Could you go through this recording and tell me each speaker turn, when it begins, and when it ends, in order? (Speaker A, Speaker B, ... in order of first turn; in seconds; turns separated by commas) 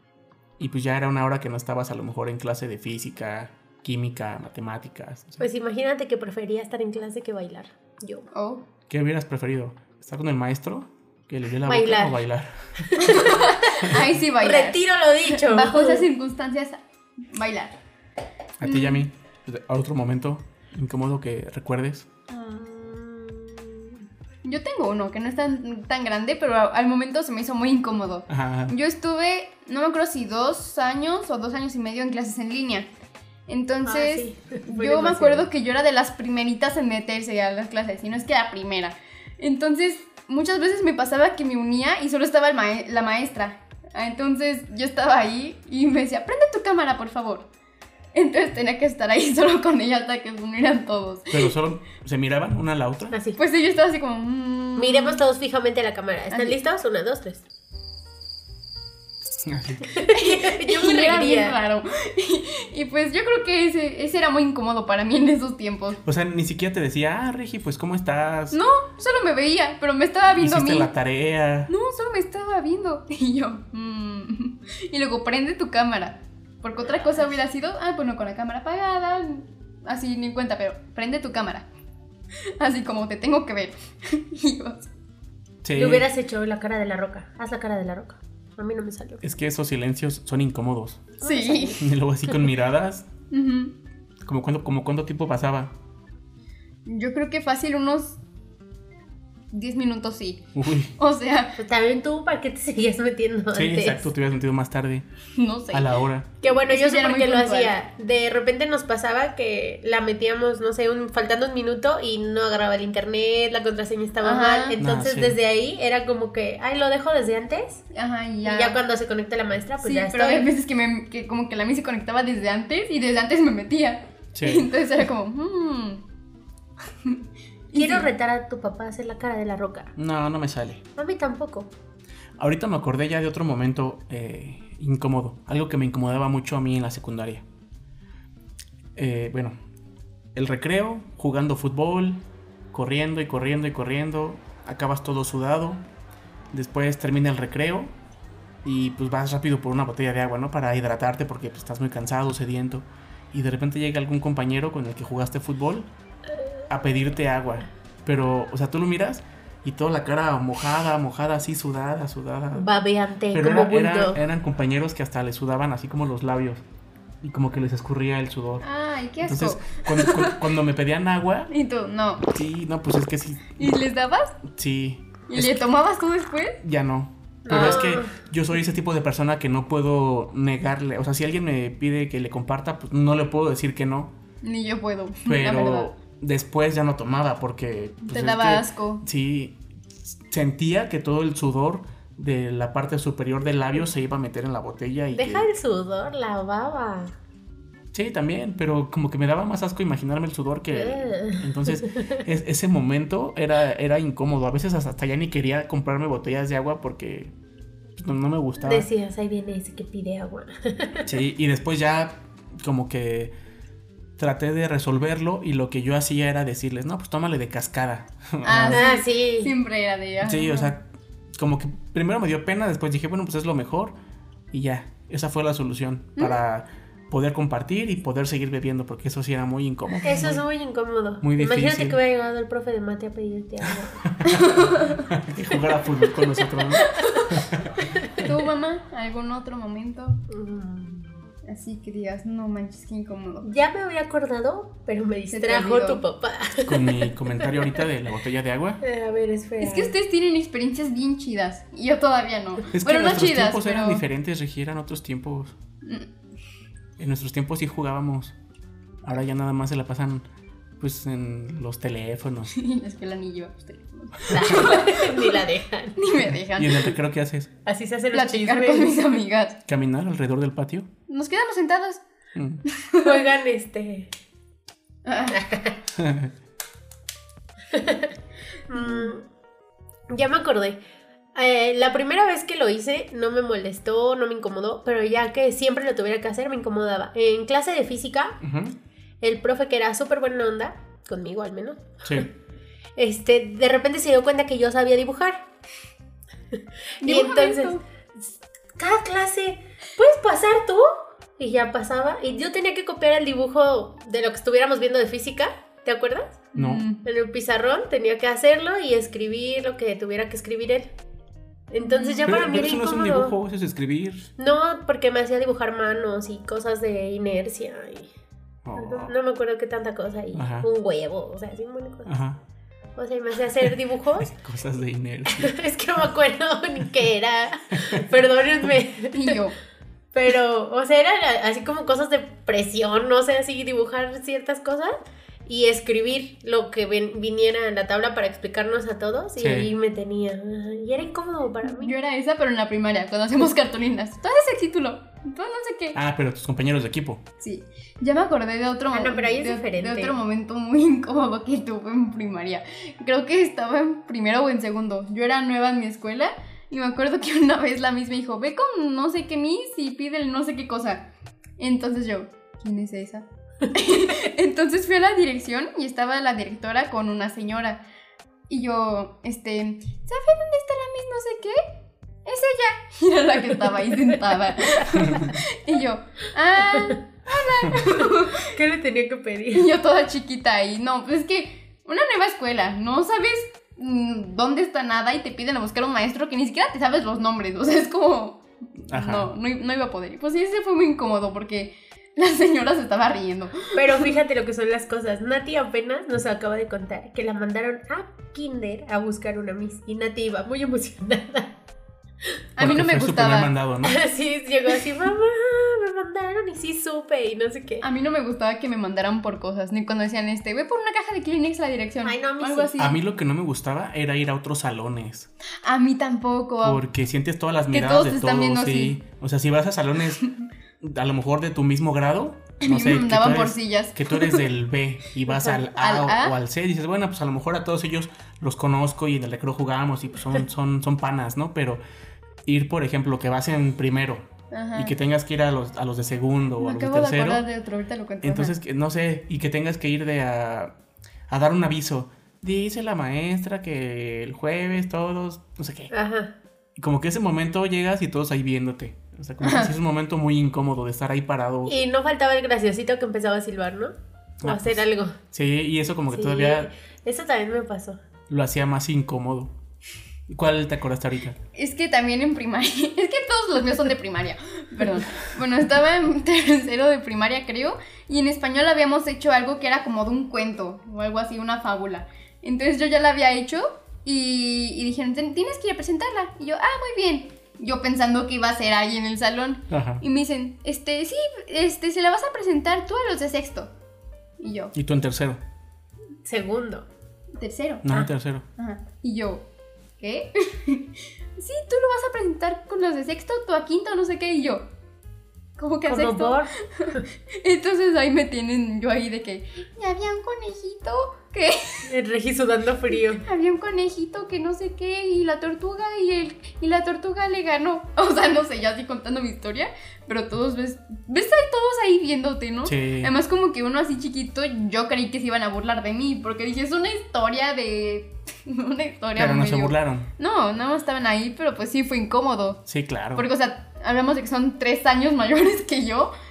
Speaker A: 0.6-5.4, Speaker B: 5.4-8.3, Speaker C: 8.3-8.6, Speaker A: 8.9-13.2, Speaker B: 11.7-12.2, Speaker B: 12.9-13.7, Speaker C: 13.0-17.8, Speaker B: 14.4-16.1, Speaker A: 18.6-22.1, Speaker C: 18.6-19.0, Speaker B: 22.3-24.0, Speaker C: 24.4-32.9, Speaker A: 28.3-28.7, Speaker C: 33.5-47.5, Speaker B: 33.9-35.5, Speaker C: 48.1-51.5, Speaker A: 51.3-53.1, Speaker B: 53.1-53.4, Speaker C: 53.4-55.2, Speaker B: 54.8-57.4, Speaker C: 56.3-56.6, Speaker A: 59.4-59.9, Speaker B: 59.8-61.6, Speaker C: 60.0-66.0, Speaker A: 66.0-68.6, Speaker C: 68.5-70.9, Speaker A: 70.3-71.7, Speaker C: 71.7-81.7, Speaker B: 77.0-77.3, Speaker C: 82.6-84.9, Speaker A: 85.6-86.1, Speaker B: 85.8-89.2, Speaker A: 89.2-91.1, Speaker B: 91.2-91.9, Speaker C: 91.2-91.8, Speaker A: 91.8-93.1, Speaker C: 93.3-93.7, Speaker A: 94.2-95.7, Speaker C: 96.9-98.2, Speaker C: 99.5-101.6, Speaker A: 100.5-100.9, Speaker B: 101.6-104.1, Speaker A: 103.5-105.0, Speaker C: 105.4-107.7, Speaker A: 105.7-106.3, Speaker B: 106.4-117.8, Speaker C: 114.2-114.8, Speaker A: 114.8-115.4, Speaker C: 117.9-118.8, Speaker B: 118.4-120.5, Speaker C: 119.8-126.0, Speaker A: 124.3-124.7, Speaker C: 127.0-128.1, Speaker B: 127.7-129.9, Speaker A: 130.0-130.8, Speaker B: 131.0-131.7, Speaker A: 132.4-137.4, Speaker A: 139.0-139.5, Speaker A: 140.3-142.2, Speaker A: 142.7-145.8, Speaker A: 146.5-147.9, Speaker A: 148.6-155.9, Speaker A: 156.7-162.7, Speaker B: 162.6-164.2, Speaker A: 163.3-166.6, Speaker A: 167.2-168.7, Speaker C: 168.6-170.4, Speaker A: 169.2-171.5, Speaker C: 171.5-172.3, Speaker A: 172.3-173.8, Speaker C: 173.6-174.4, Speaker A: 174.5-175.6, Speaker C: 175.3-176.6, Speaker A: 176.6-184.1, Speaker B: 177.4-178.1, Speaker C: 177.5-177.8, Speaker C: 184.4-185.9, Speaker A: 185.2-195.5, Speaker C: 188.1-189.0, Speaker B: 195.1-197.2, Speaker A: 197.9-207.3, Speaker B: 200.7-202.2, Speaker A: 208.0-208.9, Speaker B: 208.6-211.1, Speaker A: 211.1-213.3, Speaker A: 214.2-218.8, Speaker C: 218.5-220.7, Speaker B: 218.7-219.5, Speaker A: 220.2-223.9, Speaker A: 224.5-230.4, Speaker B: 230.0-234.0, Speaker A: 231.2-232.0, Speaker A: 234.0-238.3, Speaker C: 234.2-235.0, Speaker C: 236.8-237.2, Speaker C: 238.1-240.2, Speaker B: 240.3-241.2, Speaker C: 241.5-243.5, Speaker B: 243.4-247.8, Speaker C: 245.3-246.0, Speaker A: 246.6-248.8, Speaker B: 248.8-249.9, Speaker C: 249.6-254.0, Speaker A: 252.7-255.5, Speaker C: 255.8-256.1, Speaker A: 257.0-258.3, Speaker A: 259.0-260.2, Speaker A: 260.8-262.5, Speaker C: 262.5-267.0, Speaker A: 264.3-264.6, Speaker B: 264.3-266.0, Speaker A: 266.5-267.5, Speaker B: 267.7-269.0, Speaker C: 268.1-269.6, Speaker A: 269.7-270.9, Speaker C: 271.1-272.0, Speaker A: 272.3-272.6, Speaker C: 272.6-273.3, Speaker B: 273.0-274.1, Speaker C: 275.0-275.4, Speaker B: 275.3-275.8, Speaker A: 276.0-276.3, Speaker B: 277.7-278.2, Speaker B: 278.7-279.2, Speaker C: 278.8-279.1, Speaker B: 280.1-280.8, Speaker B: 281.3-288.4, Speaker A: 288.4-288.8, Speaker B: 289.2-292.3, Speaker A: 292.0-292.3, Speaker B: 293.0-295.4, Speaker B: 296.5-306.5, Speaker C: 297.0-297.8, Speaker A: 306.5-306.8, Speaker C: 306.5-307.0, Speaker B: 307.0-310.9, Speaker B: 311.7-313.4, Speaker C: 311.8-312.3, Speaker A: 312.2-314.3, Speaker B: 314.4-318.1, Speaker A: 318.7-319.1, Speaker B: 318.8-322.1, Speaker A: 320.3-320.7, Speaker A: 322.1-322.4, Speaker B: 323.0-324.3, Speaker A: 324.2-325.5, Speaker B: 325.3-329.4, Speaker A: 327.7-328.1, Speaker C: 329.1-329.6, Speaker B: 330.1-334.9, Speaker B: 335.5-341.9, Speaker A: 339.4-339.7, Speaker C: 341.7-346.0, Speaker A: 345.9-347.2, Speaker C: 347.4-361.1, Speaker B: 348.9-350.2, Speaker C: 361.6-367.8, Speaker C: 368.5-371.6, Speaker C: 372.2-378.6, Speaker A: 374.9-375.3, Speaker B: 377.8-379.7, Speaker C: 379.5-394.1, Speaker A: 388.9-389.3, Speaker B: 393.7-401.6, Speaker C: 402.6-403.5, Speaker A: 402.6-404.0, Speaker B: 403.8-407.9, Speaker C: 407.8-413.0, Speaker B: 412.0-412.7, Speaker A: 412.8-415.3, Speaker C: 415.6-416.8, Speaker A: 416.6-420.2, Speaker C: 417.7-419.0, Speaker A: 420.8-431.8, Speaker C: 422.6-424.4, Speaker B: 425.3-425.6, Speaker C: 425.8-426.3, Speaker A: 432.5-437.4, Speaker C: 434.5-434.9, Speaker C: 436.6-438.6, Speaker A: 438.2-440.7, Speaker A: 441.3-445.9, Speaker B: 445.9-446.3, Speaker A: 446.8-451.8, Speaker C: 449.4-449.7, Speaker B: 451.7-453.9, Speaker A: 454.4-456.7, Speaker B: 454.4-455.2, Speaker B: 456.1-458.0, Speaker A: 458.3-459.5, Speaker A: 460.3-461.4, Speaker C: 461.5-483.7, Speaker A: 479.7-480.0, Speaker C: 484.4-484.7, Speaker A: 484.8-485.4, Speaker B: 486.2-486.9, Speaker C: 487.4-487.9, Speaker A: 487.8-488.5, Speaker C: 488.6-489.4, Speaker C: 490.0-494.7, Speaker C: 495.6-501.9, Speaker B: 495.9-497.0, Speaker B: 501.8-503.2, Speaker C: 503.2-522.6, Speaker A: 512.7-513.1, Speaker A: 519.2-520.1, Speaker A: 522.7-523.2, Speaker C: 523.2-526.1